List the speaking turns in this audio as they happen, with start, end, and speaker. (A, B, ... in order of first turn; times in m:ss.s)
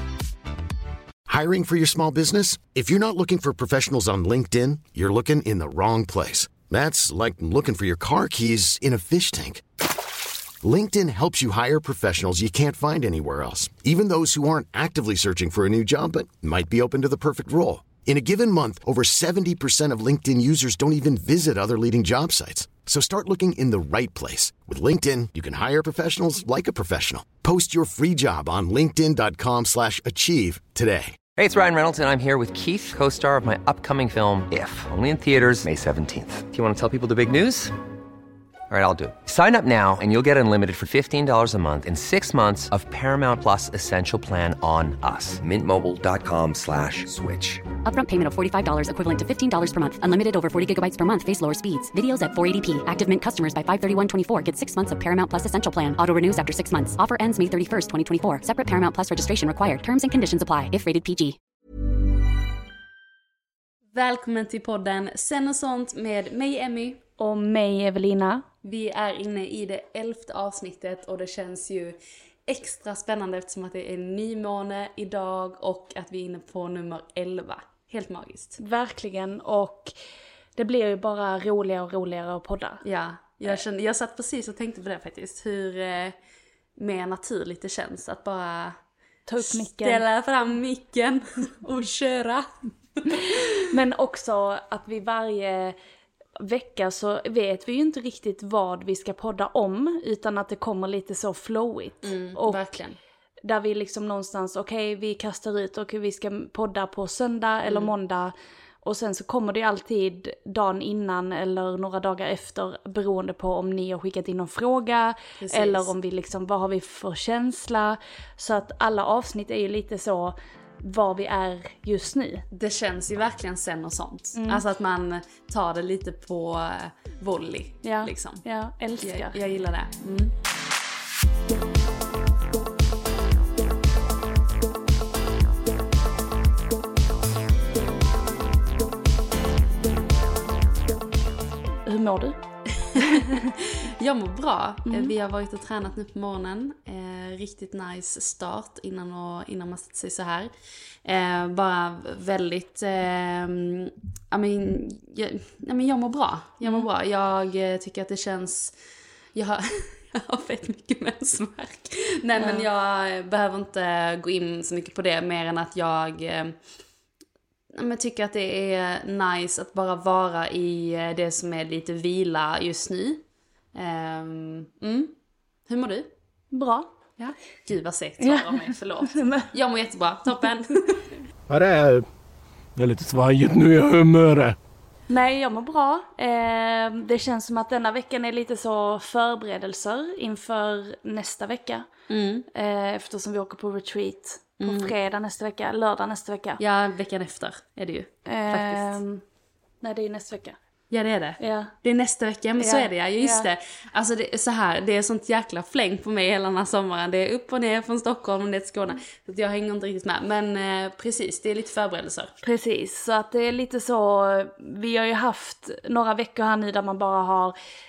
0:01.3-0:09.6 A
0:10.6-0:31.2 A
0:31.4-0:37.7 B
0:38.7-0:47.7 B
0:47.8-1:01.4 C
1:03.9-1:07.0 D
1:07.2-1:08.4 E
1:08.6-1:12.0 D
1:12.5-1:18.6 D
1:18.6-1:19.9 E
1:20.6-1:22.8 E
1:22.8-1:26.1 D
1:26.8-1:28.8 D
1:29.3-1:30.0 E
1:29.4-1:32.4 D
1:33.7-1:35.8 E
1:36.4-1:42.6 E
1:42.0-1:43.0 D
1:43.4-1:48.3 E
1:47.6-1:47.9 D
1:48.8-2:02.4 E
1:55.4-1:55.9 D
2:02.5-2:08.4 D
2:04.3-2:04.6 E
2:07.8-2:09.4 E
2:09.0-2:10.3 D
2:21.8-2:22.4 E
2:22.9-2:23.2 D
2:23.1-2:23.4 E
2:24.0-2:30.5 D
2:24.9-2:25.1 E
2:31.0-2:38.7 D
2:39.3-2:46.5 D
2:42.4-2:42.6 E
2:47.7-2:53.2 D
2:53.7-2:55.1 D
2:55.7-2:56.1 D
2:56.5-2:56.9 E
2:57.2-3:01.0 D
2:58.2-2:59.5 E
3:01.5-3:02.0 F
3:02.8-3:04.6 F
3:05.1-3:11.9 E
3:12.1-3:12.4 D
3:12.5-3:16.6 E
3:14.6-3:14.9 D
3:16.6-3:19.0 D
3:18.2-3:19.2 E
3:19.8-3:20.6 E
3:20.9-3:32.3 D
3:21.4-3:21.7 E
3:22.6-3:23.5 E
3:32.4-3:37.5 E